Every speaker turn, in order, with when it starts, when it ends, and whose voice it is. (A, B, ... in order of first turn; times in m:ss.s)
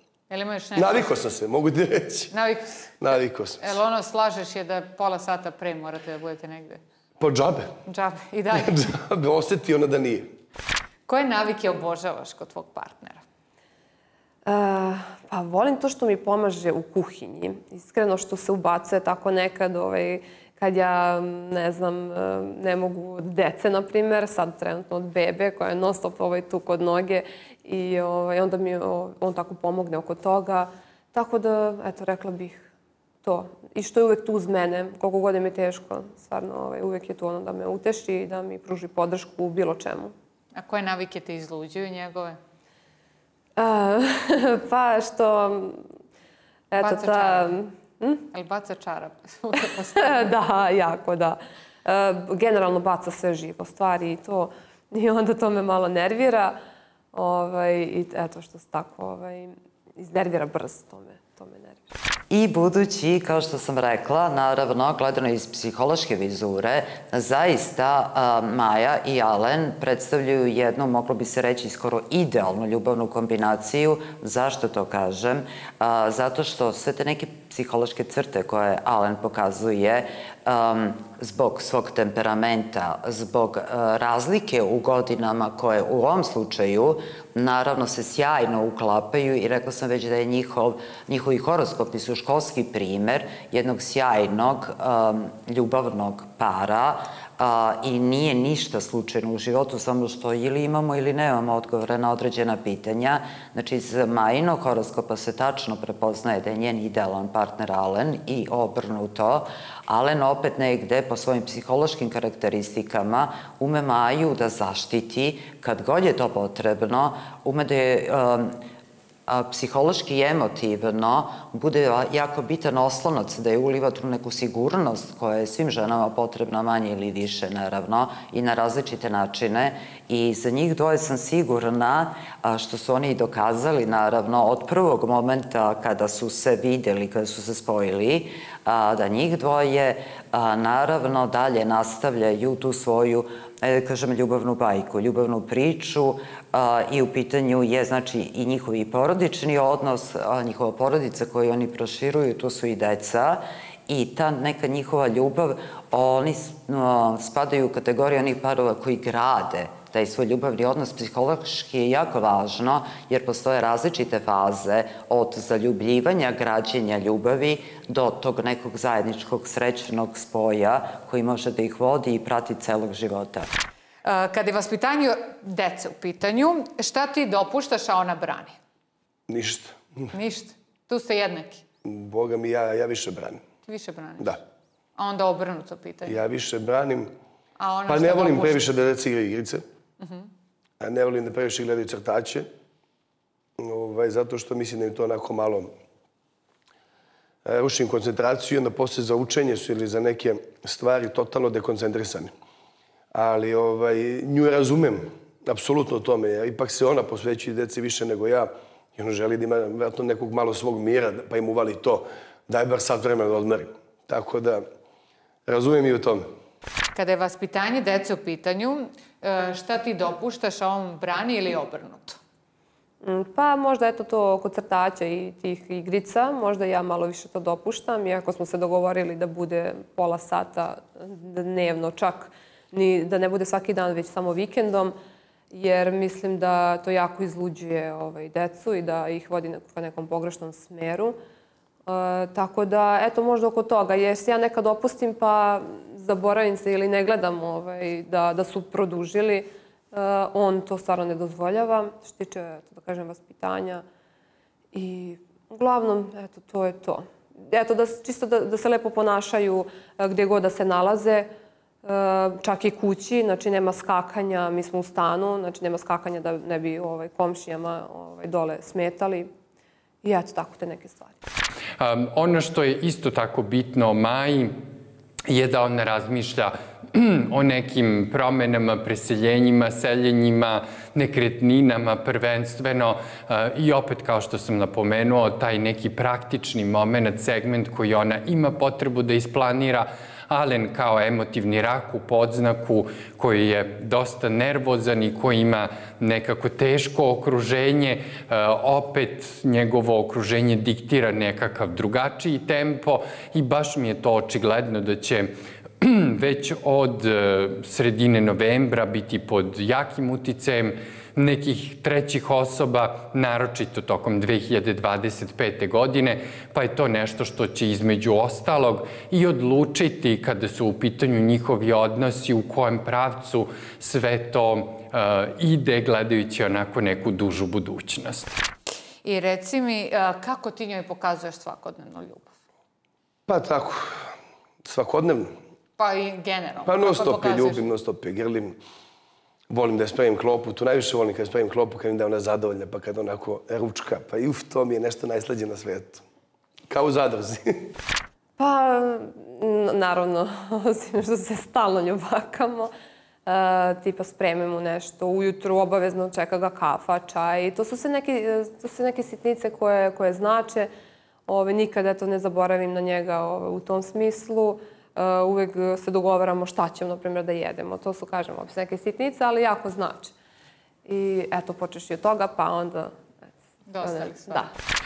0:00.3-0:01.2 A
0:00.8-0:02.3 B
0:02.3-0:02.8 A
0:03.0-0:03.7 B
0:03.6-0:06.8 A
0:07.2-0:07.8 B
0:07.8-0:08.9 A
0:08.5-0:10.3 B
0:11.1-0:13.2 A
0:14.4-0:32.7 C
0:33.2-0:40.1 C
0:40.5-0:42.4 A
0:43.6-0:45.9 C
0:46.7-0:48.2 C
0:46.8-0:47.6 A
0:48.3-0:50.3 A
0:50.0-0:56.6 C
0:57.1-1:01.8 C
1:02.3-1:58.6 D
1:59.3-2:53.5 D
2:54.0-2:58.6 A
2:59.3-3:00.1 B
3:00.1-3:01.6 A
3:01.8-3:03.4 B
3:03.6-3:04.4 A
3:05.0-3:06.2 A
3:06.0-3:07.1 B
3:07.6-3:08.6 A
3:07.9-3:09.6 B
3:10.0-3:10.3 A
3:10.8-3:12.5 B
3:13.6-3:15.7 B
3:17.4-3:22.3 B
3:23.1-3:34.6 B
3:35.4-3:36.3 B
3:36.9-3:42.2 A
3:43.0-3:55.0 C
3:55.5-4:01.2 C
4:01.9-4:13.8 C
4:14.7-4:21.3 C
4:21.8-4:29.3 C
4:30.0-4:31.2 C
4:31.8-4:34.5 E
4:35.3-5:28.4 E
5:29.0-5:32.3 A
5:33.3-5:34.1 B
5:34.6-5:35.3 B
5:35.8-5:37.7 A
5:36.6-5:38.6 B
5:39.5-5:46.0 B
5:46.7-5:47.7 B
5:48.4-5:52.7 C
5:53.2-6:00.7 C
6:01.3-6:10.1 C
6:10.8-6:13.0 C
6:13.7-6:14.5 A
6:13.8-6:14.5 C